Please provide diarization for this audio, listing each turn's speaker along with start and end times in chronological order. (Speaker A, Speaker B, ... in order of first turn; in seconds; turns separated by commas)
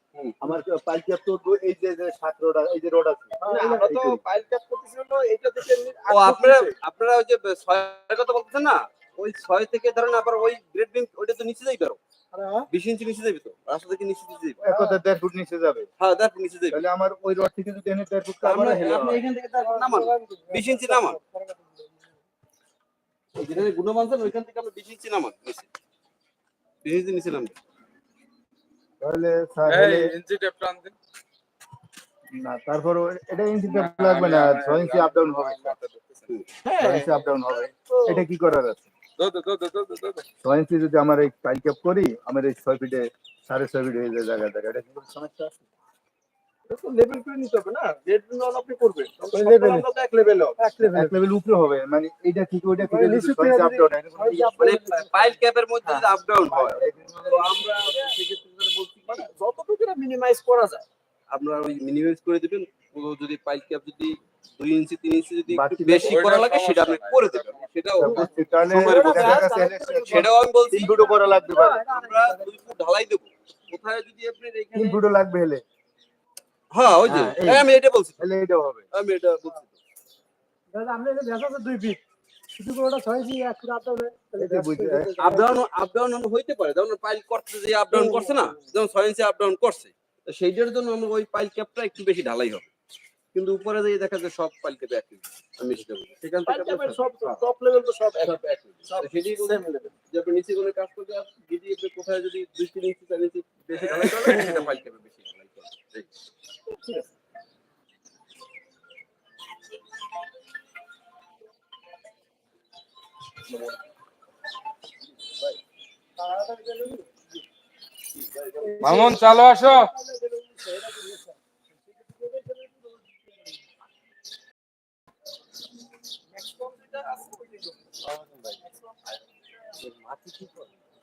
Speaker A: 0.4-4.2, Speaker B: 3.4-3.9, Speaker C: 3.4-6.7, Speaker D: 6.1-12.0, Speaker B: 12.3-12.7, Speaker D: 12.7-14.6, Speaker A: 14.6-15.9, Speaker B: 14.6-15.0, Speaker D: 16.0-16.8, Speaker A: 16.7-19.1, Speaker D: 18.4-21.2, Speaker C: 18.8-19.7, Speaker B: 19.4-22.2, Speaker D: 23.4-25.7, Speaker D: 26.8-27.6, Speaker A: 29.0-30.1, Speaker E: 29.7-30.9, Speaker A: 32.4-35.7, Speaker E: 33.7-36.4, Speaker C: 36.6-37.2, Speaker A: 36.8-38.9, Speaker C: 37.9-38.2, Speaker E: 39.2-40.2, Speaker A: 40.4-45.6, Speaker C: 46.7-50.4, Speaker B: 49.2-49.9, Speaker B: 50.6-51.1, Speaker A: 50.9-54.7, Speaker B: 52.8-55.4, Speaker D: 54.6-59.3, Speaker A: 56.4-57.6, Speaker C: 57.8-58.1, Speaker C: 59.1-60.8, Speaker D: 61.3-69.4, Speaker A: 65.5-66.2, Speaker E: 66.0-67.8, Speaker A: 68.0-71.8, Speaker B: 68.0-70.3, Speaker C: 68.7-69.5, Speaker D: 70.1-71.0, Speaker B: 71.1-72.5, Speaker D: 71.8-75.0, Speaker A: 74.7-75.6, Speaker D: 76.7-78.2, Speaker A: 77.0-78.9, Speaker D: 78.9-79.8, Speaker B: 80.7-82.0, Speaker B: 82.6-85.6, Speaker A: 84.4-85.2, Speaker D: 85.2-92.7, Speaker C: 87.9-88.7, Speaker B: 88.1-88.4, Speaker D: 93.3-97.4, Speaker C: 96.5-99.9, Speaker D: 98.2-106.1, Speaker E: 103.8-104.6, Speaker C: 104.2-104.6, Speaker B: 116.2-117.1, Speaker D: 118.2-119.0, Speaker B: 118.6-121.4, Speaker E: 118.8-119.9, Speaker B: 122.2-122.5, Speaker C: 126.4-127.9, Speaker D: 128.1-128.5, Speaker D: 129.8-130.7